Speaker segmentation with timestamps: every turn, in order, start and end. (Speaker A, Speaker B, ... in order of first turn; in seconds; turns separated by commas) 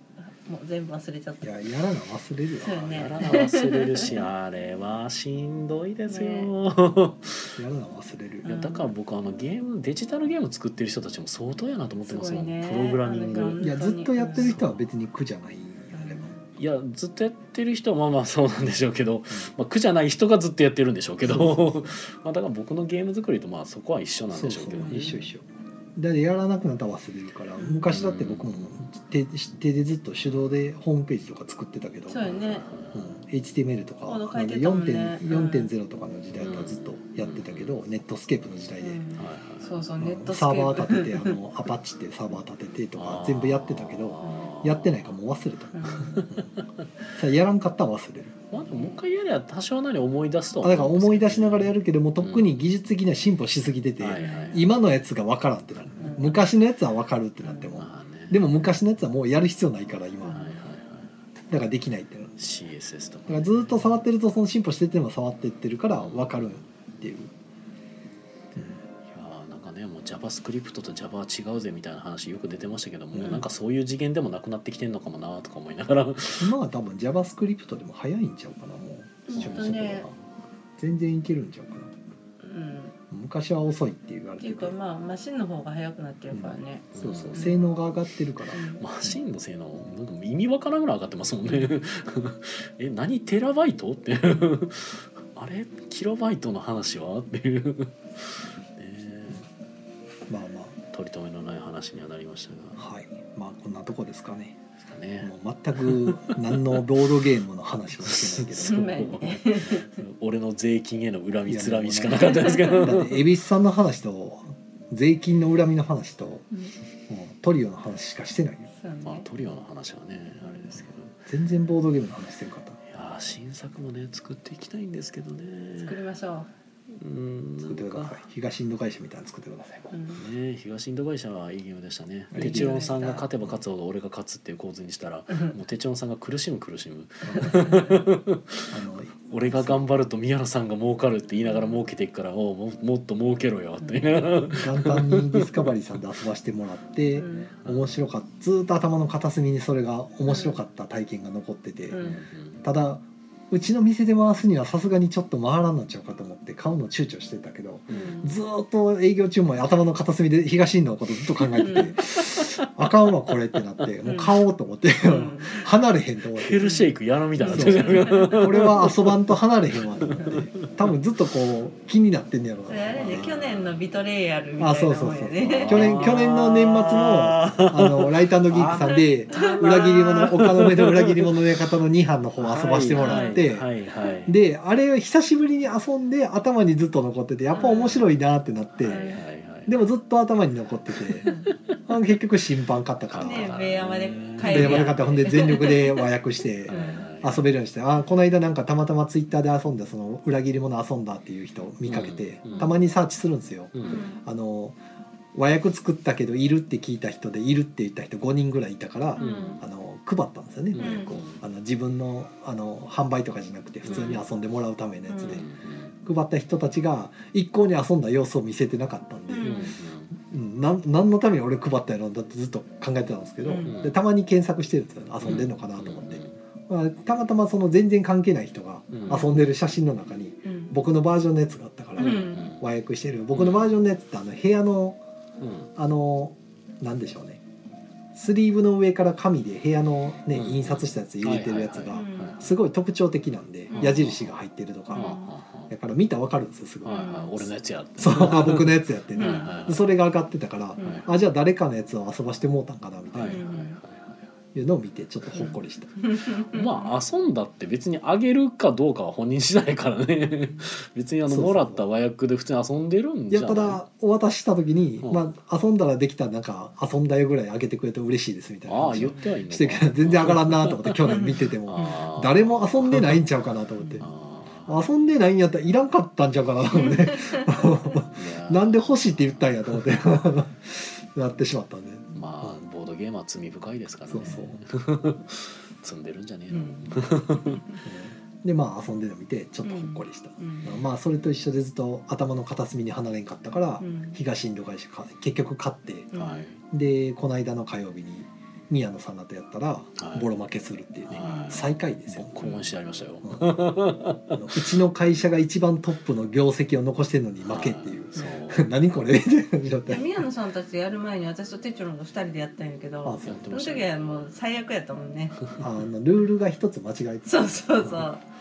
Speaker A: 0.2-1.6, Speaker B: 1.4-3.1, Speaker A: 2.6-4.2, Speaker C: 2.8-7.5, Speaker A: 6.1-6.5, Speaker B: 7.5-8.4, Speaker A: 8.4-8.9, Speaker C: 8.4-13.6, Speaker A: 12.1-14.5, Speaker B: 13.6-16.3, Speaker C: 14.3-14.8, Speaker A: 15.9-16.4, Speaker C: 16.6-25.2, Speaker B: 21.2-21.9, Speaker B: 24.3-32.3, Speaker A: 24.7-25.2, Speaker A: 27.6-27.9, Speaker C: 27.9-28.8, Speaker A: 32.1-32.6, Speaker C: 32.2-33.1, Speaker B: 32.9-39.0, Speaker A: 34.0-35.7, Speaker C: 36.4-37.8, Speaker A: 38.8-41.4, Speaker C: 39.1-39.7, Speaker B: 40.0-46.5, Speaker C: 42.9-45.1, Speaker A: 44.2-44.5, Speaker A: 45.7-46.3, Speaker C: 45.8-46.6, Speaker B: 47.1-48.4, Speaker C: 48.5-52.5, Speaker A: 48.7-49.0, Speaker B: 50.6-60.4, Speaker C: 54.0-54.7, Speaker A: 54.2-54.6, Speaker A: 56.0-56.4, Speaker C: 57.7-58.5, Speaker C: 60.2-61.1, Speaker A: 60.2-60.6, Speaker B: 61.5-62.4, Speaker C: 62.4-63.8, Speaker B: 63.3-67.3, Speaker C: 65.9-66.7, Speaker C: 69.1-76.5, Speaker B: 73.1-73.4, Speaker B: 76.3-80.1, Speaker A: 79.3-80.1, Speaker C: 79.3-80.1, Speaker B: 80.8-81.9, Speaker A: 82.4-82.9, Speaker B: 83.1-84.7, Speaker A: 84.4-87.6, Speaker B: 86.3-89.2, Speaker C: 86.9-87.5, Speaker A: 88.5-88.8, Speaker C: 88.8-99.4, Speaker A: 91.5-91.9, Speaker B: 100.3-100.8, Speaker C: 100.9-102.8, Speaker B: 102.8-104.6, Speaker C: 104.8-106.8, Speaker B: 105.2-109.2, Speaker C: 108.0-113.2, Speaker A: 108.6-109.9, Speaker B: 111.5-116.4, Speaker A: 112.4-112.8, Speaker B: 117.1-118.7, Speaker A: 118.8-119.2, Speaker C: 119.0-121.1, Speaker B: 121.3-122.8, Speaker C: 122.9-126.0, Speaker A: 125.8-126.5, Speaker C: 126.9-128.2, Speaker B: 127.6-129.9, Speaker A: 129.9-130.2, Speaker C: 130.2-145.7, Speaker B: 132.3-132.9, Speaker A: 132.3-133.2, Speaker B: 137.2-137.6, Speaker A: 137.4-138.0, Speaker B: 138.7-139.9, Speaker A: 141.4-141.8, Speaker A: 143.8-144.2, Speaker B: 144.5-152.0, Speaker A: 147.1-147.5, Speaker C: 147.6-148.0, Speaker A: 150.2-150.6, Speaker A: 151.9-152.2, Speaker C: 151.9-152.6, Speaker B: 152.6-166.7, Speaker C: 157.9-158.2, Speaker A: 157.9-158.3, Speaker C: 161.4-162.9, Speaker A: 161.6-161.9, Speaker A: 164.0-164.3, Speaker A: 165.0-165.6, Speaker C: 166.3-170.9, Speaker A: 166.6-168.5, Speaker B: 167.4-173.3, Speaker A: 170.1-170.3, Speaker A: 172.7-176.2, Speaker C: 172.9-173.8, Speaker B: 174.6-183.7, Speaker C: 175.5-181.6, Speaker A: 179.3-180.2, Speaker C: 182.4-184.4, Speaker A: 183.0-183.4, Speaker B: 184.2-189.1, Speaker A: 187.5-187.9, Speaker C: 187.6-188.1, Speaker C: 188.8-189.8, Speaker A: 188.8-189.2, Speaker B: 189.7-191.3, Speaker C: 190.9-191.2, Speaker B: 191.9-193.5, Speaker C: 193.1-195.1, Speaker A: 193.2-196.1, Speaker B: 194.4-204.8, Speaker C: 196.7-197.5, Speaker A: 196.7-197.1, Speaker C: 201.8-202.8, Speaker C: 203.7-204.0, Speaker A: 203.9-204.2, Speaker B: 205.3-215.4, Speaker A: 209.2-209.6, Speaker C: 209.2-209.6, Speaker C: 210.7-211.4, Speaker A: 210.8-211.1, Speaker C: 213.8-214.2, Speaker A: 213.9-214.2, Speaker A: 215.1-215.4, Speaker C: 215.2-215.9, Speaker B: 216.0-219.6, Speaker A: 219.3-219.7, Speaker C: 219.4-220.1, Speaker B: 220.2-235.0, Speaker A: 223.4-223.8, Speaker C: 223.6-223.9, Speaker C: 225.2-226.3, Speaker C: 228.9-229.3, Speaker A: 230.4-230.7, Speaker A: 232.0-232.5, Speaker C: 232.0-232.6, Speaker C: 233.3-233.7, Speaker C: 235.4-235.7, Speaker B: 235.8-237.4, Speaker B: 238.1-245.2, Speaker C: 240.3-242.4, Speaker A: 241.9-242.4, Speaker A: 243.7-244.0, Speaker C: 243.7-244.3, Speaker A: 244.9-245.3, Speaker C: 244.9-245.7, Speaker B: 245.7-247.5, Speaker C: 246.8-249.8, Speaker A: 246.8-247.4, Speaker B: 248.0-253.4, Speaker A: 249.2-249.6, Speaker A: 250.8-251.1, Speaker C: 250.8-251.1, Speaker C: 253.1-254.2, Speaker A: 253.3-253.8, Speaker B: 254.5-255.9, Speaker A: 255.3-256.9, Speaker C: 256.5-263.8, Speaker B: 261.3-261.8, Speaker B: 263.3-274.1, Speaker C: 268.7-273.2, Speaker A: 271.1-271.9, Speaker C: 274.0-274.8, Speaker B: 274.7-282.6, Speaker A: 276.8-277.4, Speaker C: 278.1-279.9, Speaker C: 282.1-287.6, Speaker B: 284.1-284.6, Speaker A: 286.5-287.8, Speaker B: 287.8-296.1, Speaker A: 289.6-290.8, Speaker A: 293.8-294.2, Speaker A: 296.1-296.5, Speaker C: 296.1-296.6, Speaker B: 296.7-302.4, Speaker C: 299.9-300.3, Speaker C: 301.1-304.6, Speaker A: 301.2-301.6, Speaker B: 304.3-310.1, Speaker C: 307.4-308.7, Speaker A: 309.9-315.4, Speaker B: 313.0-313.5, Speaker C: 313.2-314.3, Speaker B: 315.6-318.1, Speaker A: 317.2-318.2